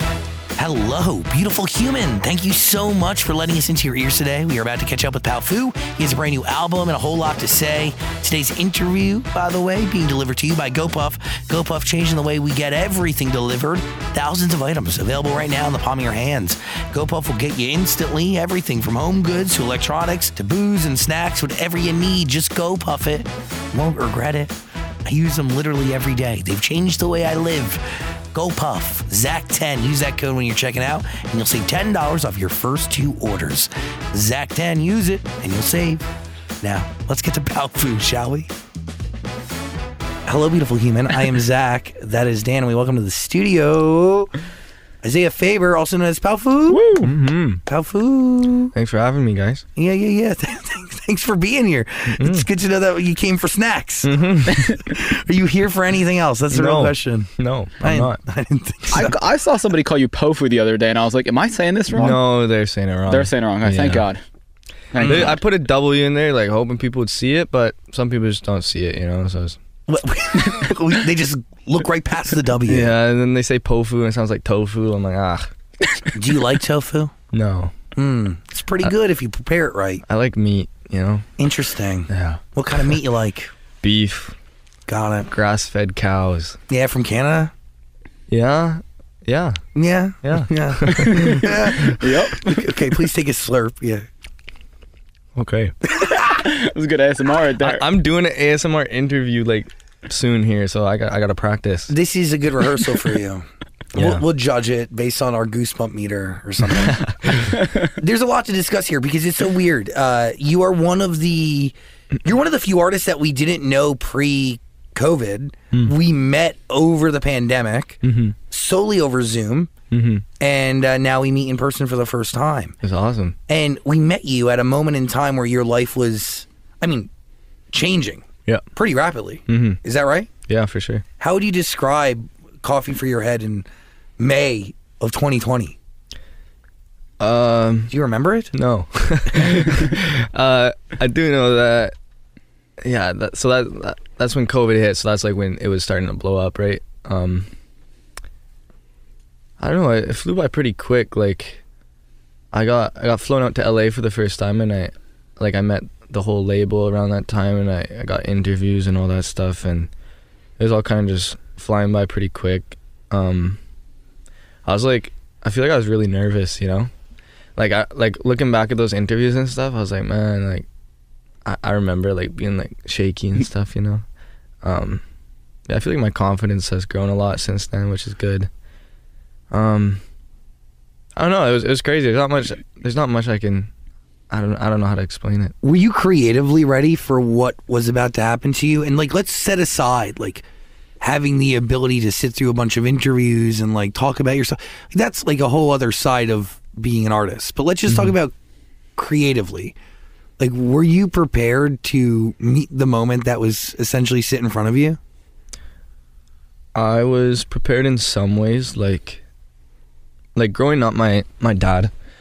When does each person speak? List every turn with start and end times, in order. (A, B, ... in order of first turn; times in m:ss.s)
0:00.6-0:36.0 A
0:36.6-0:38.5 A
0:40.2-0:44.3 A
0:45.0-0:46.9 A
0:46.7-0:47.1 B
0:47.0-0:47.6 C
0:47.7-0:48.7 A
0:48.7-0:49.6 C
0:49.8-0:54.1 A
0:52.2-0:52.5 C
0:54.0-0:54.7 C
0:54.6-0:57.3 A
0:56.5-0:58.2 C
0:57.8-0:59.2 A
0:58.9-1:02.2 B
1:01.9-1:04.0 C
1:03.1-1:04.2 B
1:04.9-1:05.4 B
1:05.0-1:09.6 C
1:05.0-1:05.3 A
1:09.9-1:12.9 A
1:12.6-1:15.5 C
1:16.1-1:17.1 A
1:17.3-1:17.8 C
1:17.9-1:20.0 A
1:20.0-1:21.3 C
1:21.4-1:23.5 A
1:22.1-1:23.0 C
1:23.8-1:24.4 C
1:24.9-1:25.3 A
1:25.3-1:26.6 C
1:26.7-1:27.5 A
1:28.3-1:29.6 C
1:29.7-1:34.0 A
1:30.2-1:32.0 C
1:30.9-1:32.6 B
1:35.3-1:35.7 C
1:36.0-1:37.9 B
1:37.6-1:41.9 C
1:41.9-1:59.7 A
1:43.9-1:44.2 C
1:46.7-1:47.5 C
1:58.0-1:58.4 C
1:59.9-2:00.2 C
2:00.4-2:02.8 A
2:02.8-2:03.4 C
2:03.5-2:07.1 A
2:07.7-2:10.3 A
2:09.5-2:09.8 C
2:10.5-2:11.0 C
2:11.2-2:13.7 A
2:14.2-2:15.8 A
2:17.2-2:17.9 C
2:17.9-2:18.5 A
2:18.5-2:21.9 C
2:22.8-2:27.5 C
2:29.6-2:31.6 C
2:32.5-2:39.9 C
2:40.6-2:43.6 C
2:44.6-2:46.9 C
2:47.6-2:50.7 C
2:51.4-2:54.0 C
2:54.6-2:55.0 C
2:55.7-2:58.5 C
2:59.5-3:00.0 C
3:01.2-3:03.7 C
3:04.3-3:05.6 C
3:05.6-3:10.4 A
3:11.0-3:18.3 A
3:17.9-3:18.1 C
3:19.0-3:19.8 A
3:20.4-3:25.0 A
3:26.7-3:29.2 C
3:30.3-3:31.9 C